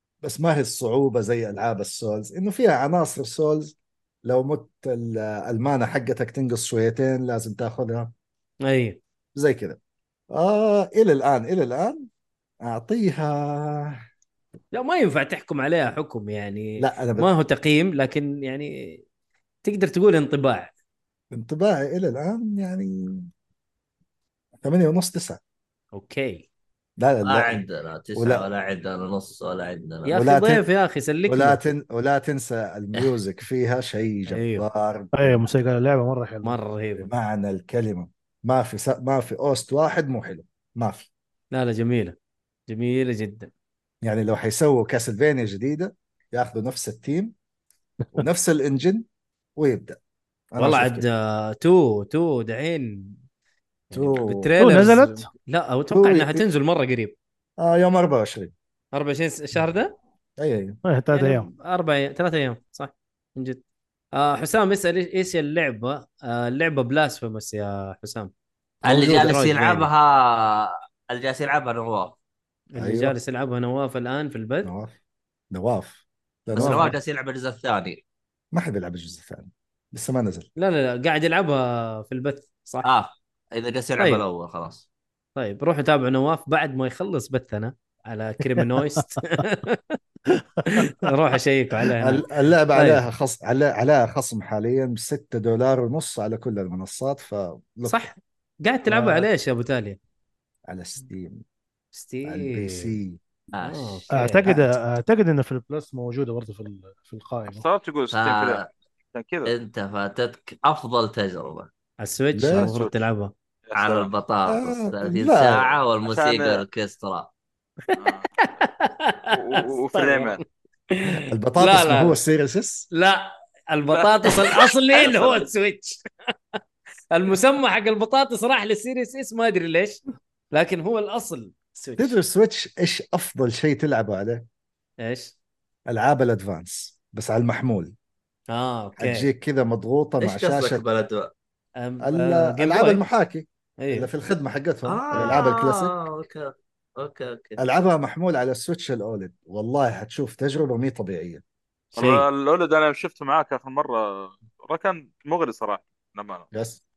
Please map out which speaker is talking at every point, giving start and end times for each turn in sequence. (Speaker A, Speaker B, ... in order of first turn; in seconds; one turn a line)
Speaker A: 0.2-8.1
Speaker B: 8.7-9.0
Speaker A: 9.3-9.8
Speaker A: 10.3-12.1
Speaker A: 12.6-14.0
Speaker B: 14.7-19.0
Speaker A: 16.8-17.3
Speaker B: 19.6-20.7
Speaker A: 21.3-23.3
Speaker A: 24.6-25.4
Speaker B: 25.9-26.5
Speaker A: 27.0-27.6
Speaker C: 27.2-30.1
Speaker A: 28.1-28.4
Speaker B: 30.0-31.6
Speaker A: 30.1-30.6
Speaker A: 31.3-35.5
Speaker B: 34.3-34.6
Speaker D: 35.1-36.6
Speaker B: 36.4-37.1
Speaker A: 37.0-41.1
Speaker B: 41.5-42.1
Speaker B: 42.7-43.5
Speaker A: 44.0-47.3
Speaker A: 48.1-49.0
Speaker A: 49.6-50.0
Speaker A: 50.5-51.0
Speaker B: 50.6-53.2
Speaker B: 53.9-57.1
Speaker A: 53.9-54.5
Speaker D: 54.6-55.3
Speaker A: 55.9-56.4
Speaker A: 57.6-58.5
Speaker B: 58.9-59.9
Speaker A: 60.4-60.8
Speaker D: 60.8-61.5
Speaker B: 61.1-63.6
Speaker B: 64.1-68.3
Speaker B: 68.8-69.9
Speaker C: 68.8-72.2
Speaker B: 72.7-74.7
Speaker A: 72.8-73.2
Speaker A: 74.6-74.9
Speaker A: 75.5-76.9
Speaker C: 76.5-78.0
Speaker B: 76.5-77.0
Speaker A: 78.5-80.5
Speaker B: 80.6-82.9
Speaker C: 82.8-84.8
Speaker B: 84.0-84.2
Speaker B: 85.3-90.0
Speaker D: 90.3-91.1
Speaker B: 90.7-93.0
Speaker A: 92.0-98.1
Speaker B: 97.8-100.0
Speaker D: 99.0-99.2
Speaker A: 100.7-101.4
Speaker B: 101.9-103.0
Speaker A: 102.2-103.2
Speaker C: 103.5-104.5
Speaker B: 103.6-104.6
Speaker D: 104.1-107.6
Speaker E: 107.5-109.5
Speaker C: 108.1-108.7
Speaker C: 109.5-111.7
Speaker B: 112.0-113.3
Speaker A: 112.3-112.7
Speaker E: 112.5-113.0
Speaker E: 113.7-114.1
Speaker C: 113.8-117.3
Speaker A: 114.5-115.8
Speaker E: 116.0-116.6
Speaker B: 117.9-120.4
Speaker E: 118.0-118.3
Speaker E: 119.3-120.4
Speaker B: 120.9-122.2
Speaker A: 121.3-122.9
Speaker B: 122.9-126.0
Speaker E: 123.9-124.4
Speaker E: 125.0-125.3
Speaker B: 127.1-130.0
Speaker B: 130.5-132.2
Speaker A: 132.0-134.4
Speaker B: 135.0-135.3
Speaker A: 135.9-137.9
Speaker B: 138.5-139.3
Speaker A: 139.0-140.8
Speaker C: 140.2-141.3
Speaker B: 141.8-143.0
Speaker A: 142.0-145.9
Speaker B: 143.8-144.1
Speaker C: 144.8-147.6
Speaker A: 147.6-151.4
Speaker B: 151.9-152.2
Speaker E: 151.9-156.5
Speaker A: 156.5-156.8